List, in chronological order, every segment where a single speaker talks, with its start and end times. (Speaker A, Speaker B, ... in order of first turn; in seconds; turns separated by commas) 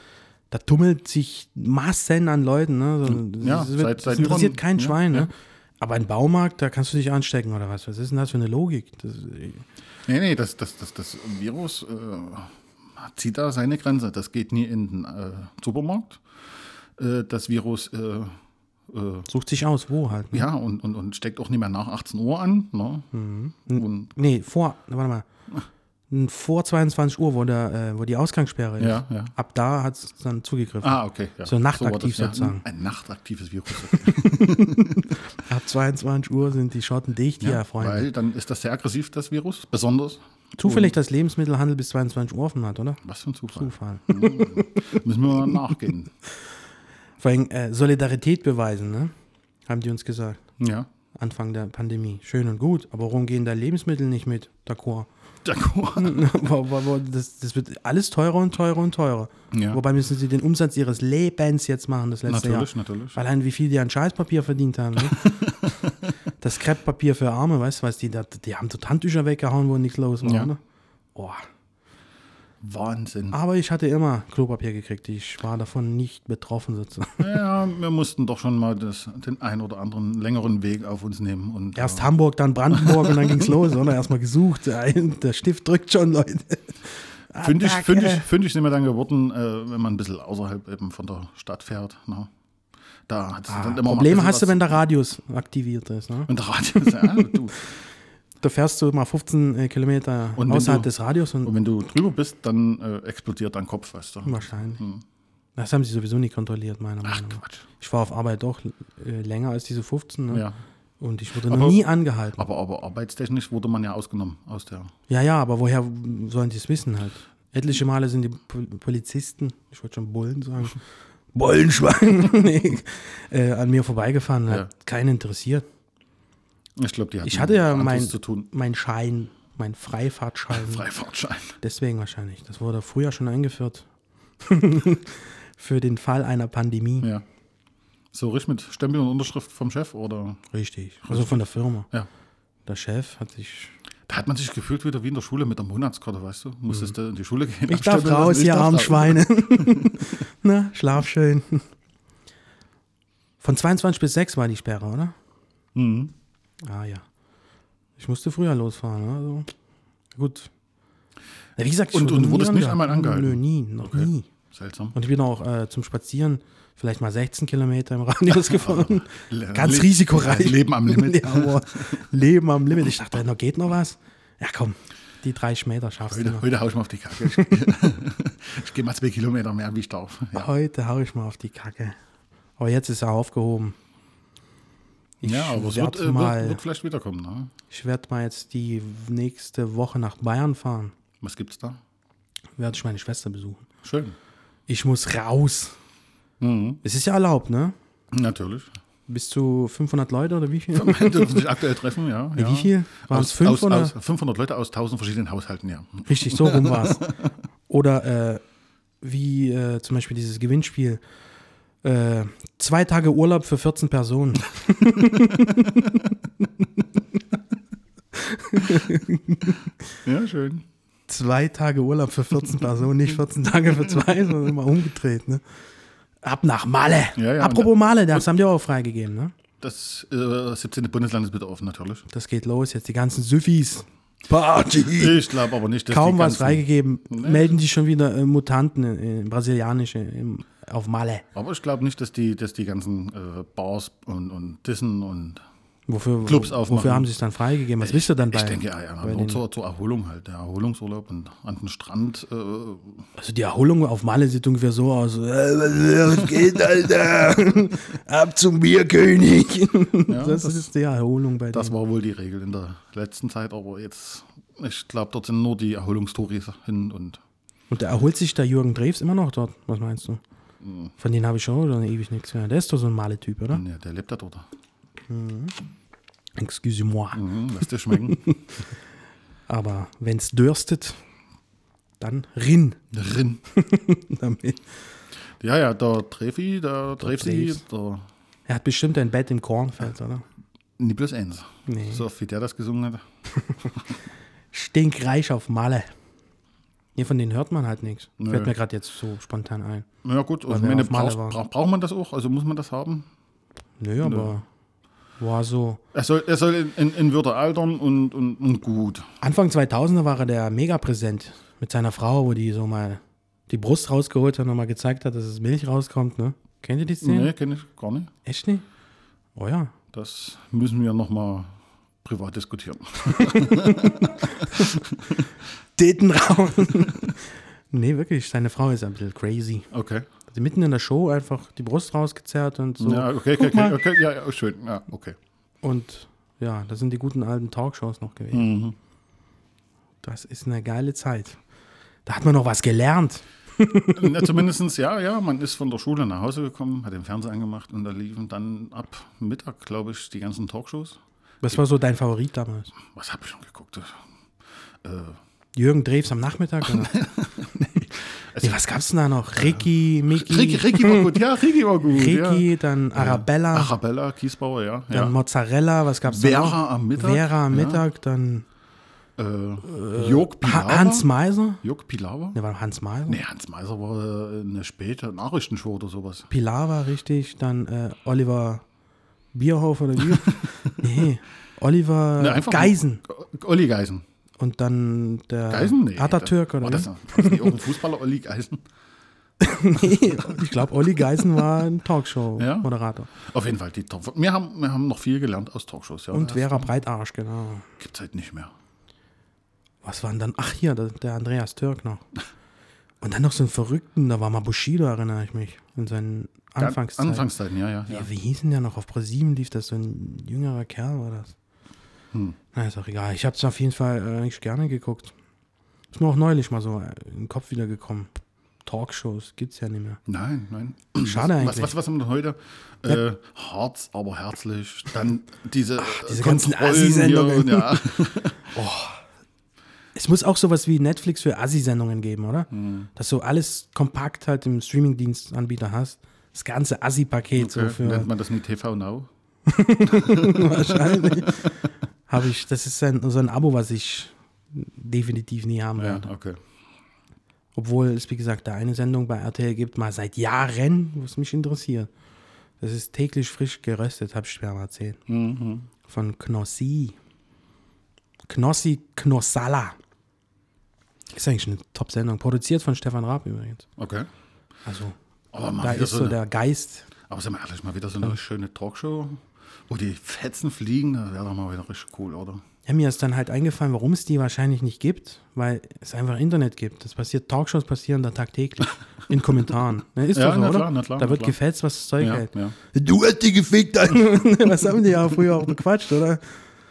Speaker A: 0.5-9.6, Speaker B: 3.1-5.3, Speaker B: 10.1-16.2, Speaker B: 17.0-18.4, Speaker B: 18.9-19.3, Speaker A: 19.3-20.5, Speaker B: 20.3-23.1, Speaker A: 23.1-25.2, Speaker B: 23.7-24.1, Speaker A: 26.1-32.6, Speaker B: 28.8-29.3, Speaker B: 30.8-35.1, Speaker A: 33.9-38.1, Speaker B: 37.4-40.9, Speaker A: 40.6-43.0, Speaker B: 43.0-46.1, Speaker A: 43.5-45.6, Speaker A: 47.2-49.1, Speaker A: 49.7-50.4, Speaker B: 50.6-50.9, Speaker A: 51.1-55.1, Speaker B: 55.4-56.2, Speaker A: 56.0-65.5, Speaker B: 59.5-59.8, Speaker B: 62.3-63.2, Speaker B: 65.0-66.0, Speaker A: 66.4-70.6, Speaker B: 70.2-70.5, Speaker A: 71.1-71.4, Speaker B: 72.6-73.4, Speaker A: 73.3-77.2, Speaker B: 77.2-82.1, Speaker A: 81.8-86.8, Speaker B: 82.7-83.6, Speaker A: 87.3-88.2, Speaker B: 87.4-92.3, Speaker B: 93.1-94.7, Speaker A: 93.5-97.3, Speaker B: 96.3-97.6, Speaker A: 98.4-101.5, Speaker B: 100.3-100.9, Speaker B: 101.4-105.0, Speaker A: 104.2-104.8, Speaker A: 105.6-110.4, Speaker B: 107.0-107.6, Speaker B: 110.3-110.6, Speaker A: 111.0-112.4, Speaker B: 111.4-114.9, Speaker A: 115.1-120.8, Speaker A: 121.3-125.6, Speaker B: 126.8-128.5, Speaker A: 127.2-130.8, Speaker B: 130.5-131.6, Speaker A: 131.6-133.9, Speaker A: 134.4-137.1, Speaker B: 138.1-140.4, Speaker A: 140.5-141.9, Speaker B: 141.1-142.1, Speaker A: 142.7-143.7, Speaker B: 144.1-150.1, Speaker A: 147.7-151.7, Speaker A: 153.4-155.1, Speaker B: 155.7-156.1, Speaker A: 156.6-157.1, Speaker A: 158.0-159.5, Speaker A: 160.1-160.5, Speaker A: 161.6-164.3, Speaker B: 161.9-164.9, Speaker A: 164.9-176.4, Speaker B: 168.3-172.0, Speaker B: 176.1-180.5, Speaker A: 177.2-177.7, Speaker A: 180.3-181.9, Speaker A: 182.6-183.8, Speaker A: 185.2-186.6, Speaker B: 185.2-187.5, Speaker A: 187.7-190.9, Speaker B: 191.2-191.8, Speaker A: 192.6-193.7, Speaker B: 193.8-194.2, Speaker A: 194.7-195.8, Speaker B: 196.4-196.8, Speaker A: 196.8-197.7, Speaker B: 198.1-198.7, Speaker A: 199.1-201.5, Speaker B: 200.7-207.3, Speaker A: 202.3-203.9, Speaker A: 206.1-207.1, Speaker A: 207.7-208.4, Speaker A: 209.0-211.0, Speaker A: 211.8-216.1, Speaker A: 218.1-219.7, Speaker B: 220.0-220.6, Speaker A: 221.1-225.4, Speaker A: 226.2-229.3, Speaker B: 227.2-228.2, Speaker B: 229.6-232.0, Speaker A: 232.1-235.3, Speaker B: 234.8-237.6, Speaker A: 235.9-241.2, Speaker B: 241.3-245.4, Speaker A: 245.9-249.4, Speaker B: 246.2-247.1, Speaker B: 247.8-253.0, Speaker A: 253.2-261.7, Speaker B: 260.1-260.7, Speaker B: 261.5-267.2, Speaker A: 267.7-270.2, Speaker B: 270.6-270.9, Speaker A: 271.0-273.6, Speaker B: 273.5-274.4, Speaker A: 275.1-275.5, Speaker A: 276.4-277.2, Speaker B: 277.1-278.2, Speaker A: 277.9-278.4, Speaker A: 279.5-281.0, Speaker A: 282.0-282.8, Speaker B: 282.9-283.4, Speaker A: 283.5-284.6, Speaker B: 285.4-288.1, Speaker A: 287.0-287.6, Speaker A: 288.5-290.2, Speaker B: 290.8-293.0, Speaker A: 291.7-292.0, Speaker A: 293.4-293.7, Speaker A: 294.5-295.9, Speaker A: 296.9-299.9, Speaker B: 298.2-298.5, Speaker B: 300.0-303.1, Speaker A: 300.5-301.4, Speaker A: 303.8-304.4, Speaker B: 304.0-304.3, Speaker A: 305.2-305.8, Speaker B: 305.9-309.1, Speaker A: 309.2-317.3, Speaker B: 317.0-318.1, Speaker A: 318.2-318.6, Speaker A: 319.4-319.7, Speaker B: 319.9-321.5, Speaker B: 322.0-325.3, Speaker A: 323.1-324.8, Speaker A: 325.8-329.7, Speaker B: 329.7-330.1, Speaker A: 330.3-333.8, Speaker B: 332.8-335.2, Speaker A: 335.6-338.6, Speaker B: 338.3-338.7, Speaker A: 340.0-341.4, Speaker A: 342.1-344.4, Speaker B: 343.9-351.0, Speaker A: 351.4-352.7, Speaker B: 352.9-354.0, Speaker B: 354.8-355.2, Speaker A: 355.6-356.9, Speaker B: 356.6-358.6, Speaker A: 358.4-361.2, Speaker B: 359.4-365.1, Speaker A: 361.8-363.7, Speaker A: 364.9-368.4, Speaker B: 366.1-367.8, Speaker B: 369.2-371.1, Speaker A: 369.6-371.6, Speaker B: 371.6-372.4, Speaker A: 372.3-373.2, Speaker B: 373.1-376.3, Speaker A: 376.3-378.6, Speaker A: 379.3-383.0, Speaker B: 380.1-381.0, Speaker B: 382.2-384.0, Speaker A: 384.4-387.6, Speaker B: 385.5-388.6, Speaker A: 389.4-393.1, Speaker B: 392.4-396.7, Speaker A: 396.1-397.7, Speaker B: 397.8-398.5, Speaker A: 399.8-402.0, Speaker A: 403.0-407.3, Speaker B: 406.6-408.1, Speaker A: 407.9-411.3, Speaker A: 412.5-415.1, Speaker A: 415.9-418.1, Speaker A: 418.6-420.0, Speaker B: 420.1-428.5, Speaker A: 421.0-421.7, Speaker A: 425.8-427.9, Speaker A: 428.5-429.0, Speaker A: 429.9-438.1, Speaker B: 432.5-432.9, Speaker B: 437.4-439.1, Speaker A: 439.5-441.6, Speaker B: 439.9-441.4, Speaker A: 442.1-446.1, Speaker B: 445.8-446.4, Speaker A: 447.5-451.9, Speaker A: 452.6-455.0, Speaker B: 455.1-455.7, Speaker A: 455.9-456.9, Speaker A: 458.3-459.8, Speaker A: 461.1-463.7, Speaker B: 463.8-464.1, Speaker A: 464.6-464.9, Speaker B: 465.3-466.2, Speaker A: 465.6-466.9, Speaker B: 467.1-472.4, Speaker A: 472.6-486.2, Speaker B: 480.1-481.3, Speaker B: 482.0-482.5